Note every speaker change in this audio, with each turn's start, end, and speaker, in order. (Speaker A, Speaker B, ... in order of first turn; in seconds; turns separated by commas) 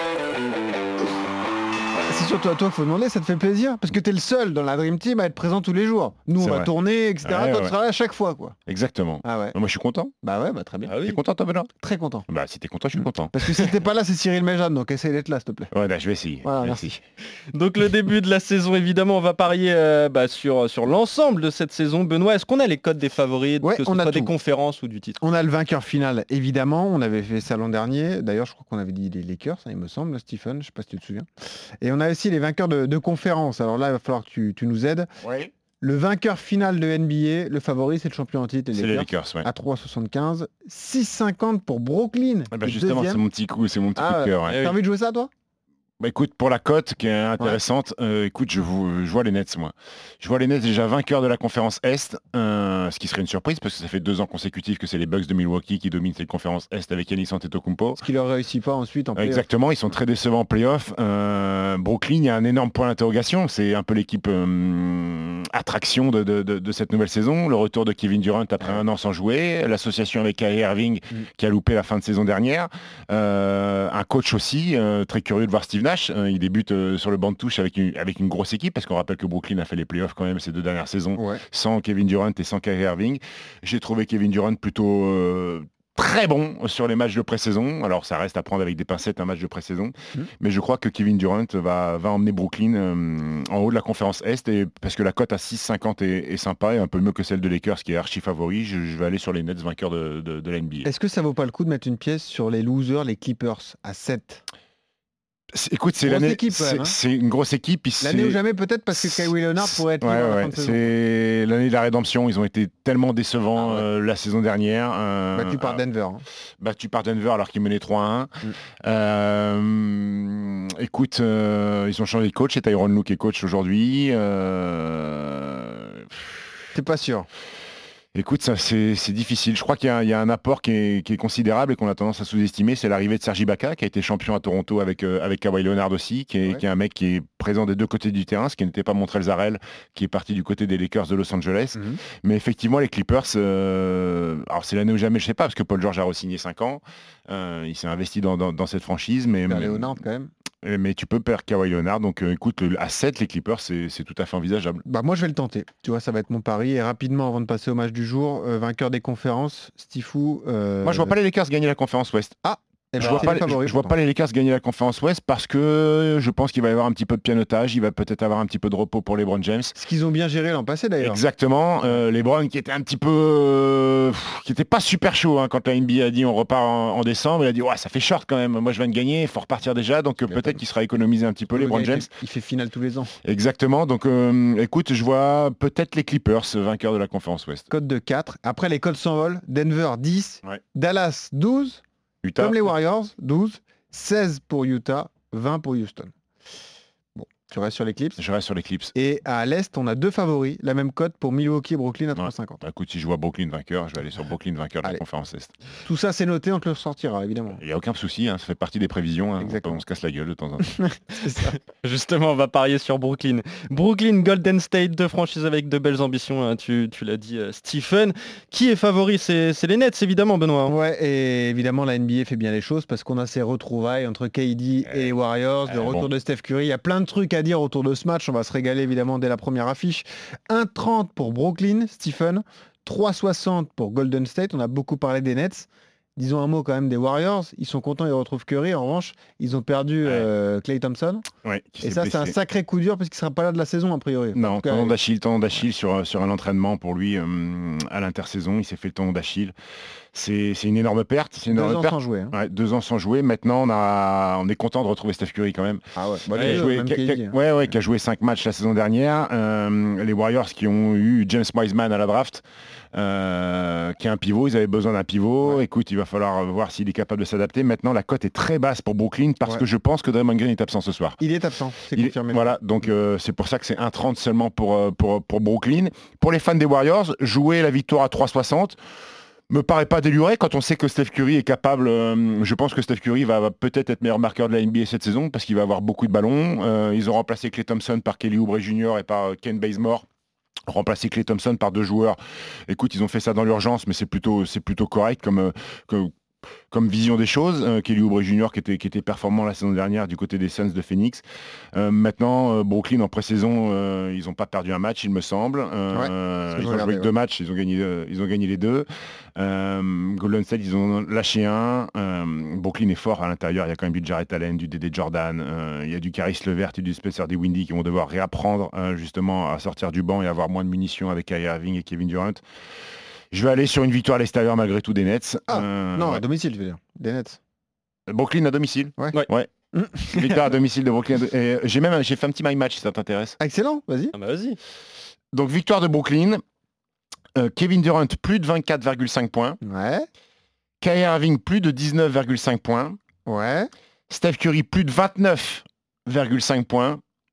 Speaker A: 2.0-8.6, Speaker B: 6.4-6.7, Speaker B: 7.2-7.7, Speaker B: 8.7-10.1, Speaker A: 9.2-9.6, Speaker A: 10.2-11.0, Speaker C: 10.9-11.2, Speaker B: 11.0-11.7, Speaker A: 11.7-12.3, Speaker B: 12.3-13.7, Speaker A: 13.0-15.7, Speaker B: 15.7-17.0, Speaker A: 16.4-17.0, Speaker C: 17.5-25.2, Speaker A: 23.6-24.3, Speaker A: 25.2-31.2, Speaker A: 31.8-35.1, Speaker B: 35.2-35.5, Speaker A: 35.8-43.2, Speaker B: 38.7-39.5, Speaker B: 42.5-44.7, Speaker A: 44.0-45.3, Speaker C: 44.5-44.8, Speaker B: 46.0-58.0, Speaker A: 58.0-59.5, Speaker B: 59.2-100.9, Speaker A: 81.2-81.4, Speaker A: 100.8-104.4, Speaker B: 105.5-108.4, Speaker A: 106.0-107.0, Speaker A: 108.0-110.9, Speaker B: 108.9-115.8, Speaker A: 113.6-113.8, Speaker A: 115.3-116.2, Speaker B: 116.6-118.3, Speaker B: 118.8-126.4, Speaker A: 126.7-127.3, Speaker B: 128.2-150.0, Speaker A: 149.5-150.3, Speaker B: 150.6-154.8, Speaker A: 154.8-161.2, Speaker B: 160.8-162.3, Speaker A: 162.4-164.0, Speaker B: 163.0-169.8, Speaker A: 169.8-171.2, Speaker B: 171.0-182.1, Speaker A: 180.3-180.6, Speaker A: 181.5-183.2, Speaker B: 183.2-187.7, Speaker A: 187.7-191.8, Speaker B: 192.2-192.7, Speaker A: 192.4-196.1, Speaker A: 197.2-198.2, Speaker B: 198.2-198.9, Speaker A: 198.9-202.6, Speaker B: 202.2-205.5, Speaker A: 205.8-207.6, Speaker B: 207.5-210.8, Speaker A: 209.4-209.8, Speaker A: 210.6-211.6, Speaker C: 211.4-220.7, Speaker A: 220.7-241.2, Speaker B: 224.8-225.1, Speaker B: 225.7-226.1, Speaker B: 240.0-240.3, Speaker B: 241.4-242.3, Speaker A: 241.8-245.0, Speaker B: 244.3-249.5, Speaker B: 250.1-255.8, Speaker A: 251.5-252.4, Speaker A: 255.9-257.4, Speaker B: 256.3-271.2, Speaker C: 256.4-256.6, Speaker A: 271.2-272.6, Speaker B: 271.9-278.8, Speaker B: 279.5-290.1, Speaker B: 290.7-296.1, Speaker B: 296.7-301.2, Speaker B: 301.8-322.4, Speaker A: 305.9-307.1, Speaker B: 323.3-326.2, Speaker A: 325.5-327.4, Speaker B: 328.1-329.5, Speaker A: 329.7-330.3, Speaker B: 330.1-333.4, Speaker A: 333.4-334.1, Speaker C: 334.1-334.6, Speaker B: 335.3-336.4, Speaker B: 337.4-339.6, Speaker A: 339.6-340.1, Speaker B: 340.8-343.0, Speaker A: 343.2-343.7, Speaker B: 344.1-347.0